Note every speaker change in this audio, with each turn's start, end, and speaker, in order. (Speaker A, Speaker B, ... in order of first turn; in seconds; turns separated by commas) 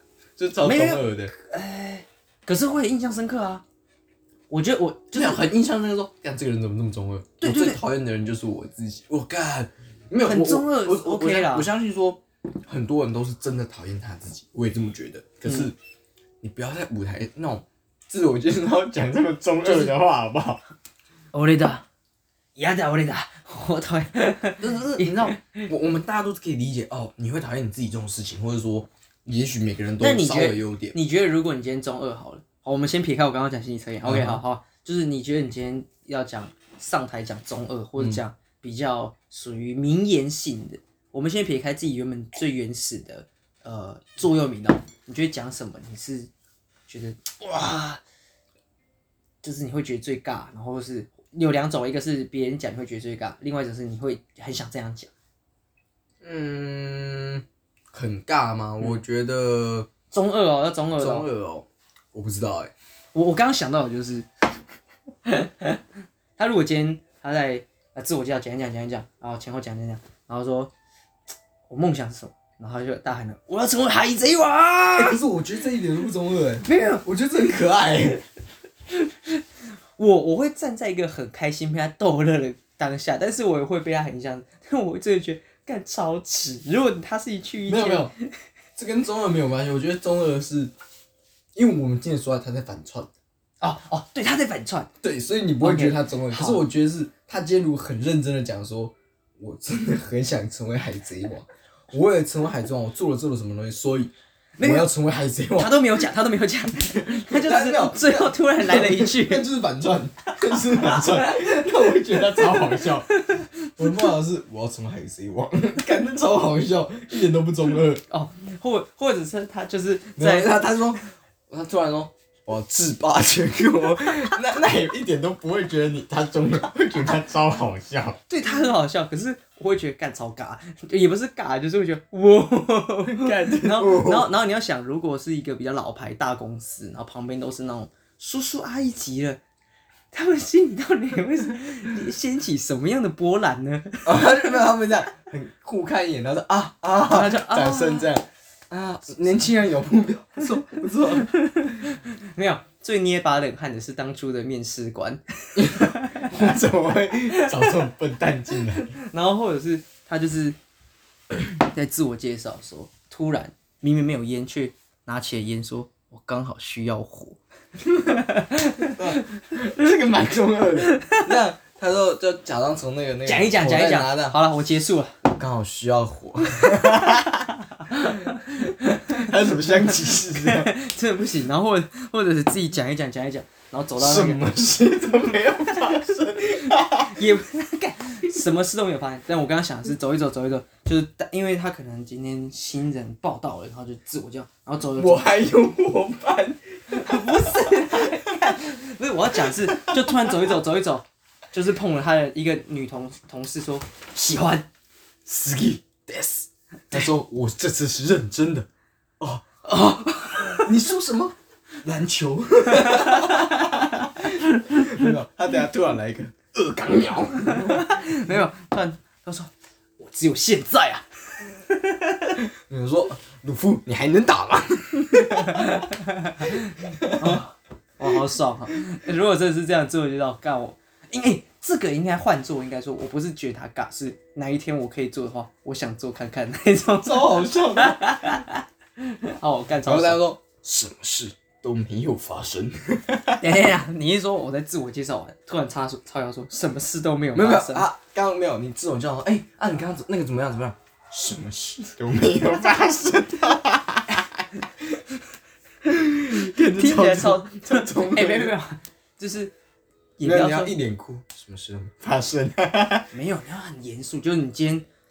Speaker A: 0.4-1.3, Speaker B: 0.6-3.6, Speaker B: 4.5-5.4, Speaker A: 5.1-15.8, Speaker B: 7.4-7.8, Speaker B: 10.2-11.7, Speaker A: 16.4-20.6, Speaker B: 19.6-19.9, Speaker B: 21.3-21.9, Speaker B: 22.6-25.7, Speaker A: 24.6-31.0, Speaker B: 30.0-46.3, Speaker A: 34.0-34.4, Speaker B: 46.9-48.0, Speaker B: 49.4-55.1, Speaker A: 56.2-59.9, Speaker B: 60.1-61.3, Speaker A: 61.0-62.7, Speaker B: 63.1-64.3, Speaker B: 65.2-65.8, Speaker B: 66.4-70.7, Speaker B: 71.7-75.2, Speaker A: 75.0-78.2, Speaker B: 76.6-77.0, Speaker B: 80.0-88.2, Speaker A: 87.7-88.1, Speaker A: 88.8-90.7, Speaker A: 91.5-93.1, Speaker B: 93.6-94.9, Speaker A: 95.0-105.8, Speaker B: 95.6-96.6, Speaker B: 104.6-104.9, Speaker B: 105.6-109.5, Speaker A: 107.0-113.1, Speaker B: 110.4-111.3, Speaker B: 112.3-114.0, Speaker A: 113.8-118.0, Speaker B: 118.1-120.7, Speaker A: 120.2-128.2, Speaker B: 128.3-139.4, Speaker A: 133.1-134.3, Speaker B: 140.1-144.6, Speaker A: 144.0-151.3, Speaker B: 147.0-148.1, Speaker B: 150.6-156.3, Speaker A: 155.6-159.0, Speaker B: 157.3-157.7, Speaker B: 158.8-160.6, Speaker B: 161.6-167.4, Speaker B: 168.1-169.2, Speaker A: 168.8-174.4, Speaker B: 170.9-171.2, Speaker B: 173.3-175.2, Speaker A: 175.2-178.3, Speaker B: 176.6-184.4, Speaker A: 179.1-180.7, Speaker A: 184.0-187.3, Speaker B: 186.7-195.2, Speaker A: 195.0-198.5, Speaker B: 196.9-204.7, Speaker A: 199.4-200.6, Speaker A: 205.3-208.7, Speaker A: 209.2-218.4, Speaker B: 209.8-210.7, Speaker B: 212.8-213.7, Speaker B: 214.3-215.1, Speaker B: 217.4-222.4, Speaker A: 222.5-227.4, Speaker B: 225.1-240.2, Speaker A: 237.0-238.3, Speaker A: 239.8-243.5, Speaker B: 243.4-247.9, Speaker A: 247.3-255.0, Speaker A: 255.8-258.6, Speaker B: 256.8-259.5, Speaker B: 260.2-260.8, Speaker A: 260.2-263.1, Speaker B: 263.1-264.9